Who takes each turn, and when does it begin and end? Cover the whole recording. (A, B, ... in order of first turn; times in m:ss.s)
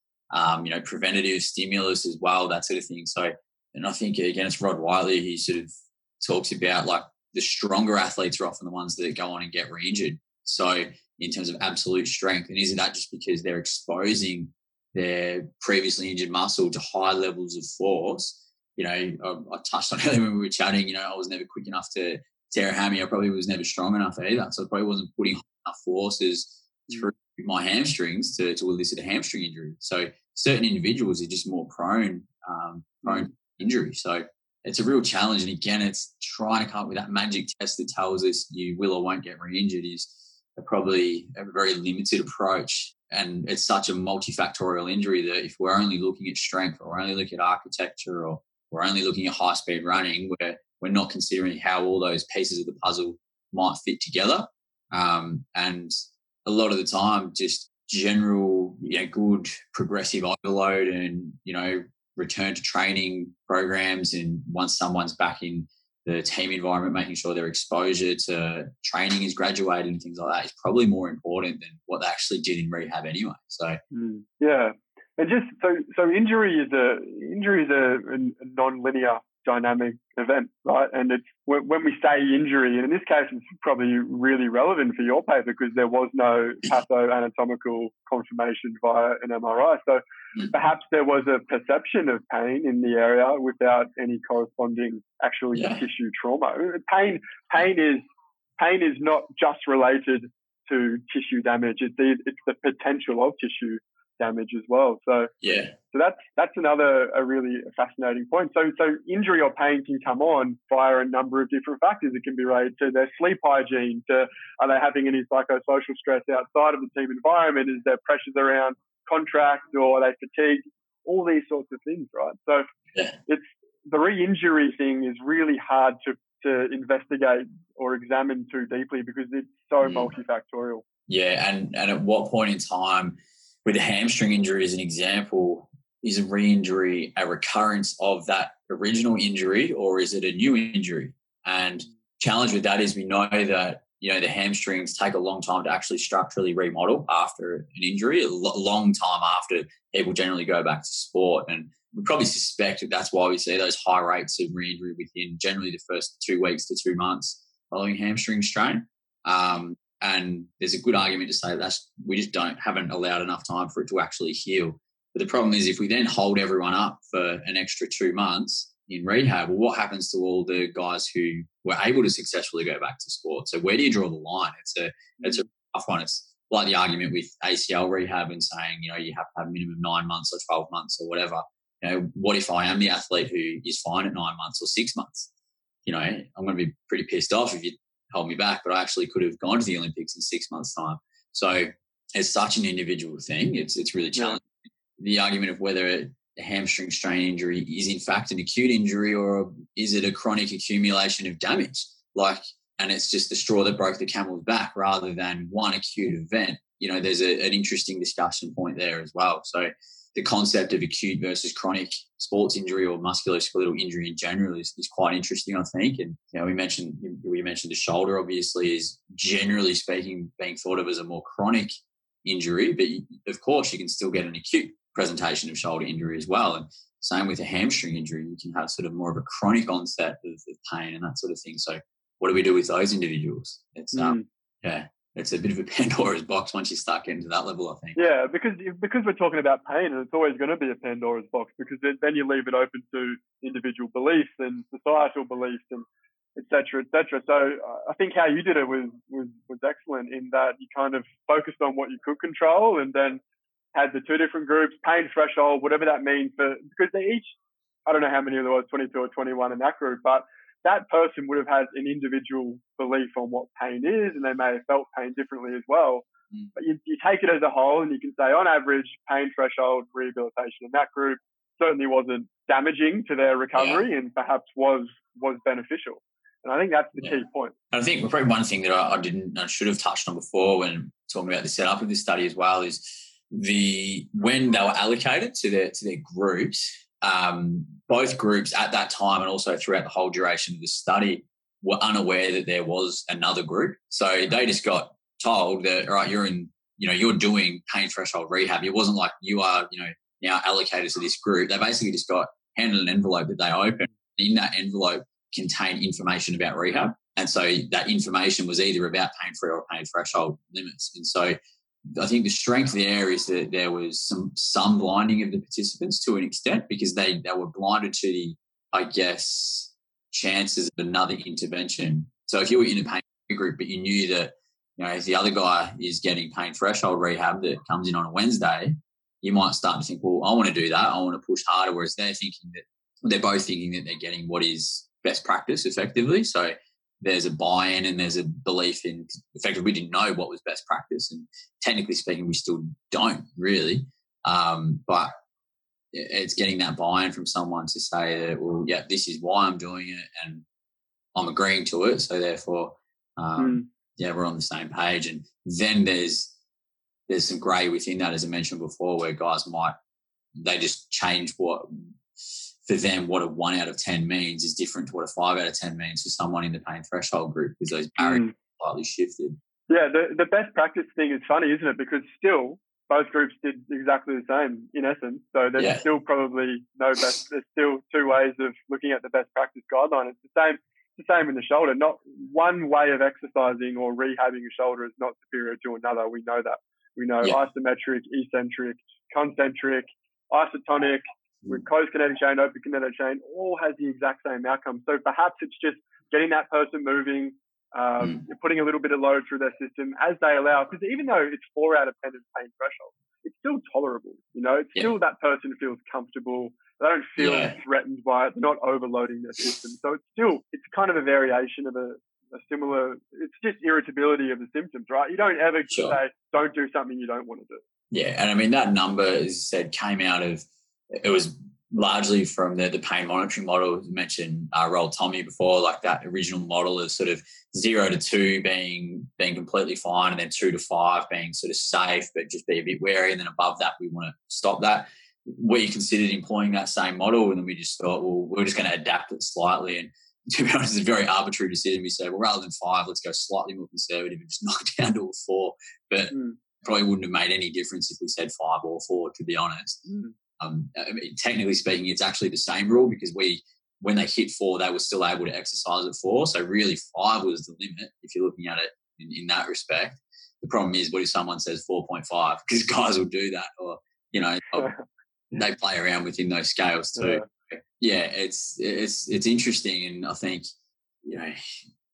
0:00.3-1:13.8 A
1:13.9-1:38.0 B
1:35.5-1:35.8 A
1:38.6-1:45.3 B
1:45.4-1:45.7 A
1:45.9-2:02.6 B
2:03.3-2:10.8 B
2:09.8-2:10.1 A
2:11.1-3:05.3 A
3:05.8-3:14.4 A
3:15.0-3:41.7 A
3:42.2-3:58.0 A
3:53.9-3:54.2 B
3:58.0-4:13.2 B
4:13.7-4:17.3 B
4:17.8-4:37.5 B
4:33.6-4:33.8 A
4:37.7-5:11.4 A
5:11.9-5:45.1 A
5:45.9-5:50.4 A
5:51.1-5:56.3 A
5:53.4-5:53.6 B
5:57.1-5:59.7 A
6:00.3-6:01.7 A
6:02.6-6:09.4 A
6:08.0-6:08.3 B
6:09.7-6:57.6 B
6:15.6-6:15.8 A
6:47.2-6:47.6 A
6:55.7-6:56.0 A
6:57.9-7:29.8 A
7:26.1-7:26.4 B
7:29.9-7:30.1 B
7:30.4-7:44.7 A
7:44.5-7:44.8 B
7:45.3-7:50.5 A
7:47.0-7:47.2 B
7:51.0-7:51.6 A